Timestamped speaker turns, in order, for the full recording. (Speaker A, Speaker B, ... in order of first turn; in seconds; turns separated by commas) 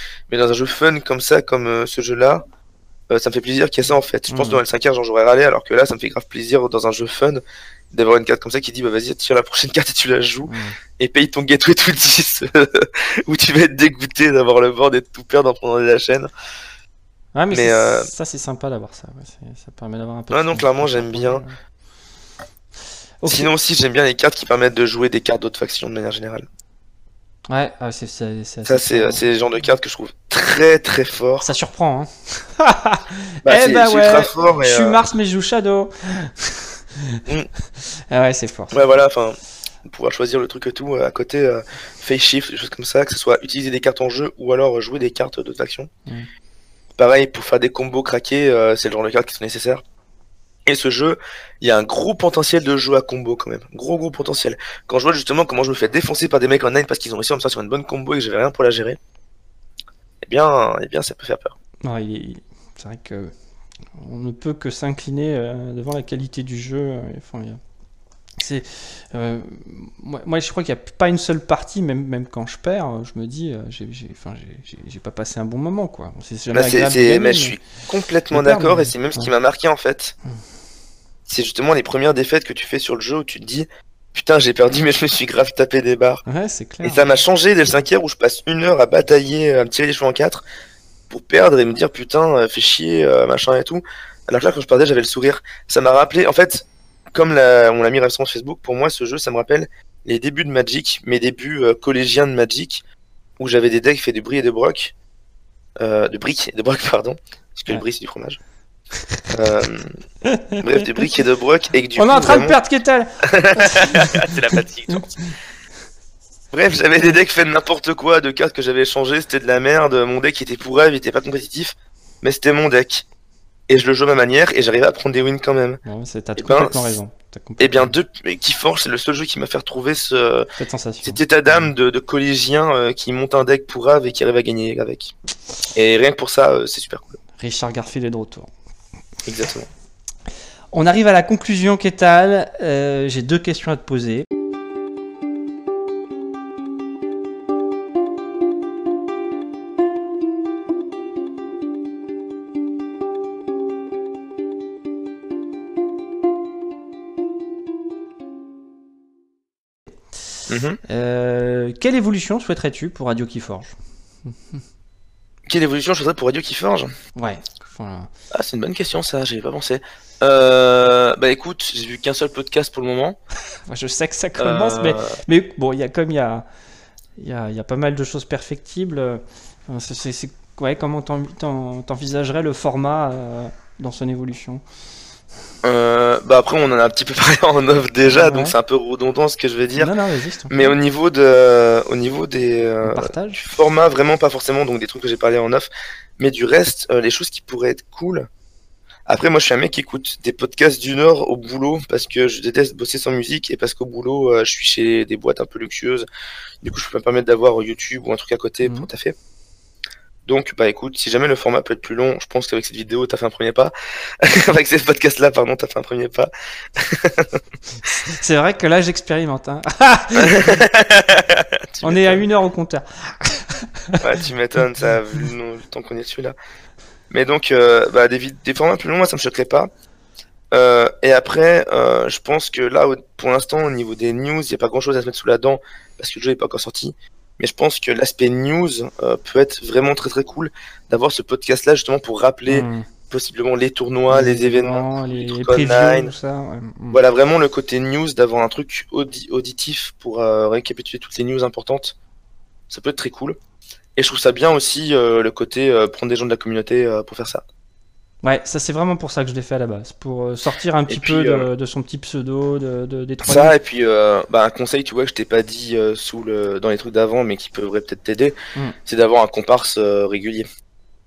Speaker A: 0.3-2.4, Speaker A: 3.1-16.3, Speaker B: 4.3-4.6, Speaker B: 10.5-10.8, Speaker B: 17.4-21.5, Speaker A: 17.5-18.1, Speaker A: 20.3-21.4, Speaker B: 23.2-23.5, Speaker A: 23.3-26.5, Speaker B: 27.5-29.2, Speaker A: 28.7-31.5, Speaker B: 31.4-37.2, Speaker A: 33.5-35.0, Speaker B: 37.8-38.8, Speaker A: 38.7-45.9, Speaker A: 47.0-49.8, Speaker A: 50.7-59.0, Speaker A: 60.2-61.5, Speaker B: 61.8-63.3, Speaker B: 64.0-67.6, Speaker B: 68.4-77.6, Speaker A: 76.5-80.1, Speaker B: 78.3-79.3, Speaker A: 81.3-86.2, Speaker B: 86.3-87.1, Speaker A: 86.8-90.4, Speaker A: 91.1-102.8, Speaker A: 103.4-104.9, Speaker A: 105.8-108.4, Speaker A: 109.3-109.9, Speaker B: 110.2-111.0, Speaker A: 110.6-112.6, Speaker B: 112.0-114.3, Speaker A: 113.2-115.2, Speaker A: 116.5-123.0, Speaker A: 123.7-125.8, Speaker B: 125.8-127.9, Speaker A: 126.4-127.0, Speaker A: 127.6-130.5, Speaker B: 130.6-131.7, Speaker A: 131.0-135.2, Speaker A: 135.7-137.1, Speaker B: 137.4-138.5, Speaker A: 139.2-139.7, Speaker B: 140.7-144.3, Speaker A: 160.5-160.8, Speaker B: 160.9-163.7, Speaker A: 165.5-166.9, Speaker B: 167.2-168.1, Speaker A: 168.3-173.2, Speaker B: 173.7-176.4, Speaker A: 174.4-175.2, Speaker B: 177.2-184.6, Speaker A: 185.6-189.9, Speaker B: 188.0-188.6, Speaker B: 189.8-190.8, Speaker A: 190.5-198.3, Speaker B: 192.8-193.4, Speaker A: 199.1-206.1, Speaker A: 206.6-209.2, Speaker B: 208.6-208.9, Speaker A: 210.2-217.4, Speaker B: 217.8-220.6, Speaker A: 220.2-222.2, Speaker B: 221.8-224.0, Speaker A: 224.0-226.4, Speaker A: 227.1-229.7, Speaker A: 230.5-246.1, Speaker B: 242.5-242.9, Speaker B: 244.1-247.0, Speaker A: 246.9-252.0, Speaker A: 252.7-253.4, Speaker A: 254.0-257.4, Speaker B: 258.2-263.6, Speaker A: 260.9-261.5, Speaker A: 263.2-270.5